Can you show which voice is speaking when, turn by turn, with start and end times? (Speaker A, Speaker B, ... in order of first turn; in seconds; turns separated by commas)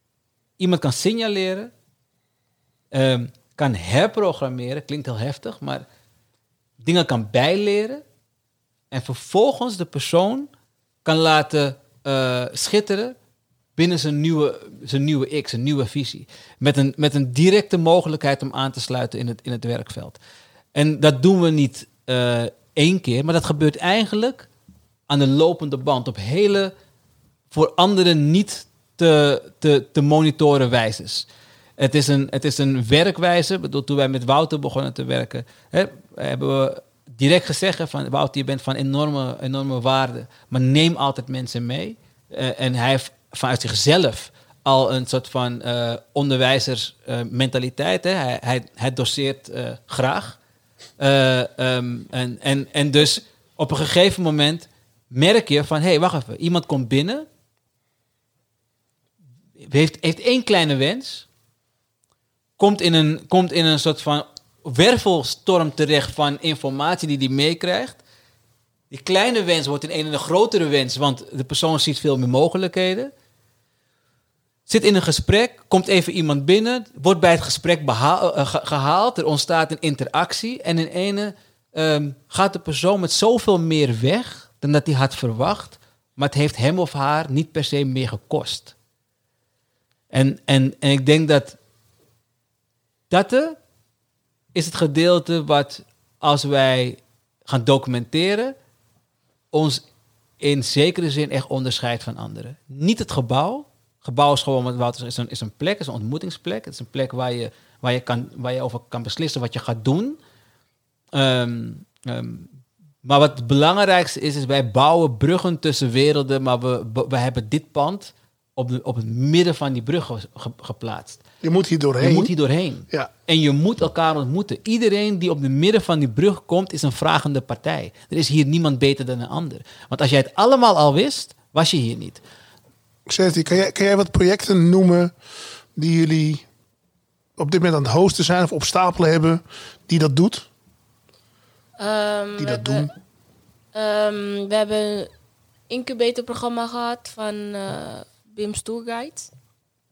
Speaker A: 0.6-1.7, Speaker A: 2.9-5.9, Speaker A: 6.8-8.0, Speaker A: 8.9-10.5, Speaker A: 11.1-13.2, Speaker A: 13.8-20.2, Speaker A: 20.7-24.5, Speaker A: 25.1-26.7, Speaker A: 27.5-31.3, Speaker A: 31.8-50.4, Speaker A: 51.0-57.3, Speaker A: 59.6-61.3, Speaker A: 62.6-68.0, Speaker A: 68.9-73.1, Speaker A: 74.7-88.7, Speaker A: 90.1-91.6, Speaker A: 93.1-93.6, Speaker A: 94.5-98.5, Speaker A: 99.5-99.8, Speaker A: 100.4-110.2, Speaker A: 111.1-121.2, Speaker B: 121.4-122.3, Speaker A: 122.0-132.2, Speaker B: 133.1-135.1, Speaker B: 135.7-136.4, Speaker B: 137.4-140.5, Speaker C: 141.8-142.9, Speaker B: 142.4-142.9, Speaker C: 143.7-145.1, Speaker C: 145.7-149.3